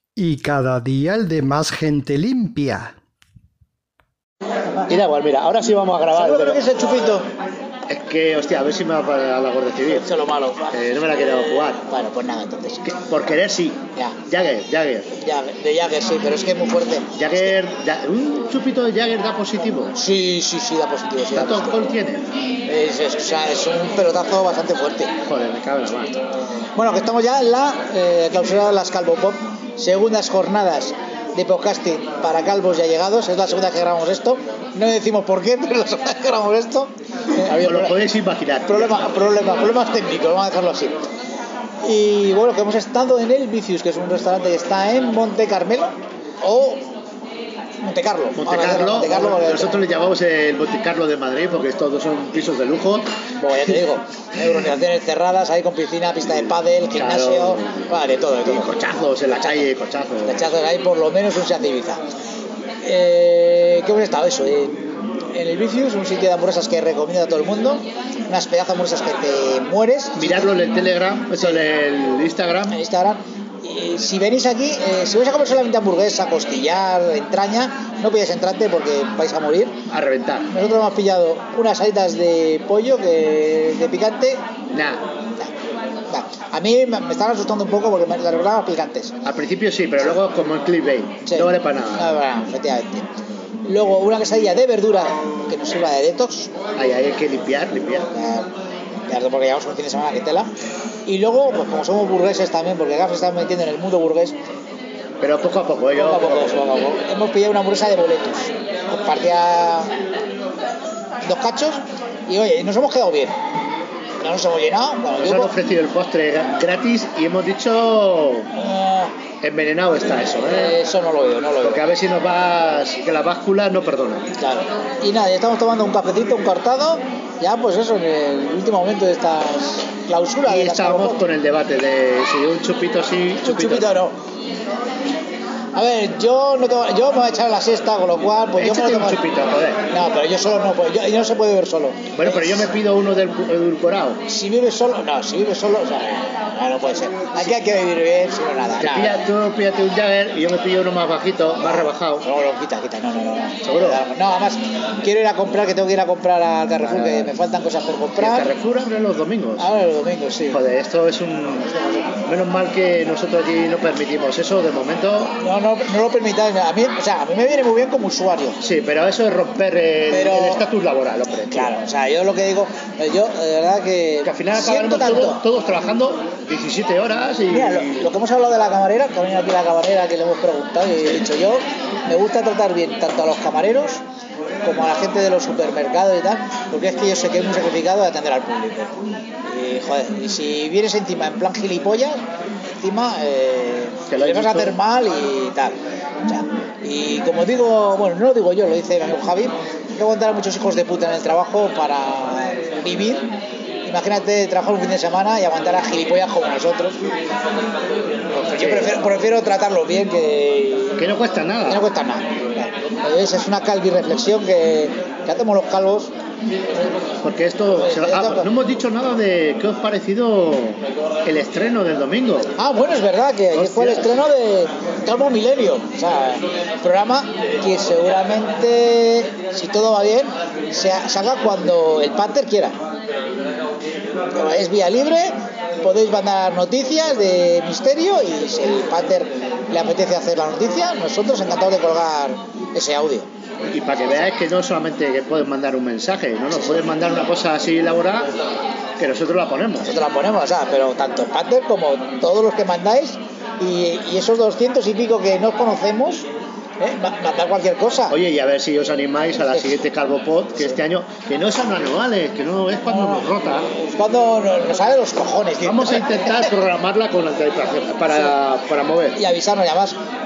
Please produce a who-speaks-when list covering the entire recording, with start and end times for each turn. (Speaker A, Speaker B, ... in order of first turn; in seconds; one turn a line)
Speaker A: 0.2-2.9
Speaker B: 4.9-6.6
Speaker C: 6.1-7.2
Speaker B: 7.9-10.1
Speaker C: 10.0-10.7
Speaker B: 10.7-11.8
Speaker C: 11.9-12.9
Speaker B: 12.9-15.1
Speaker C: 15.2-17.4
Speaker B: 17.1-19.9
Speaker C: 19.9-21.9
Speaker B: 21.3-22.3
Speaker C: 22.6-25.1
Speaker B: 25.2-26.2
Speaker C: 26.7-38.0
Speaker B: 37.6-38.9
Speaker C: 38.7-41.0
Speaker C: 41.8-46.8
Speaker C: 47.8-49.8
Speaker B: 48.4-53.1
Speaker C: 53.4-58.7
Speaker B: 57.0-57.6
Speaker B: 58.5-60.3
Speaker C: 59.2-59.7
Speaker C: 60.2-62.0
Speaker C: 62.8-70.5
Speaker B: 70.2-72.7
Speaker C: 71.3-71.6
Speaker C: 72.7-79.8
Speaker B: 79.9-80.5
Speaker C: 80.5-84.4
Speaker B: 84.7-85.0
Speaker C: 86.1-89.1
Speaker B: 89.2-92.0
Speaker C: 91.2-93.0
Speaker C: 93.6-96.5
Speaker B: 96.8-98.1
Speaker C: 98.1-98.5
Speaker C: 99.1-100.5
Speaker C: 101.0-104.4
Speaker B: 105.2-106.5
Speaker C: 105.9-109.9
Speaker C: 111.2-113.3
Speaker C: 114.2-115.5
Speaker B: 115.2-118.5
Speaker C: 118.5-119.1
Speaker B: 119.4-120.7
Speaker C: 120.5-121.8
Speaker B: 121.6-124.2
Speaker C: 124.4-131.2
Speaker B: 130.4-133.8
Speaker C: 133.4-134.2
Speaker C: 135.7-139.2
Speaker B: 138.6-139.8
Speaker C: 139.9-142.7
Speaker B: 142.1-144.2
Speaker C: 144.3-149.2
Speaker B: 148.8-152.2
Speaker C: 151.6-158.5
Speaker B: 153.6-154.0
Speaker B: 156.8-157.3
Speaker B: 158.2-159.7
Speaker C: 159.6-160.6
Speaker B: 160.5-161.7
Speaker C: 161.7-162.0
Speaker B: 162.2-165.3
Speaker C: 165.4-168.6
Speaker B: 168.6-171.7
Speaker C: 170.1-170.6
Speaker C: 171.5-175.4
Speaker B: 174.2-178.1
Speaker C: 177.5-184.0
Speaker C: 184.6-188.9
Speaker C: 189.4-192.2
Speaker C: 192.8-203.3
Speaker B: 194.1-194.5
Speaker C: 203.8-207.0
Speaker C: 208.3-211.0
Speaker B: 208.6-208.9
Speaker B: 211.0-211.8
Speaker C: 211.7-216.1
Speaker B: 217.2-222.5
Speaker C: 217.8-218.5
Speaker C: 222.6-232.8
Speaker B: 223.6-224.0
Speaker C: 234.3-243.3
Speaker B: 243.7-248.3
Speaker B: 249.0-249.9
Speaker C: 249.8-256.3
Speaker C: 256.8-258.2
Speaker B: 258.1-263.7
Speaker C: 259.4-259.8
Speaker C: 262.9-263.3
Speaker C: 263.9-266.5
Speaker B: 265.6-269.2
Speaker C: 269.1-269.9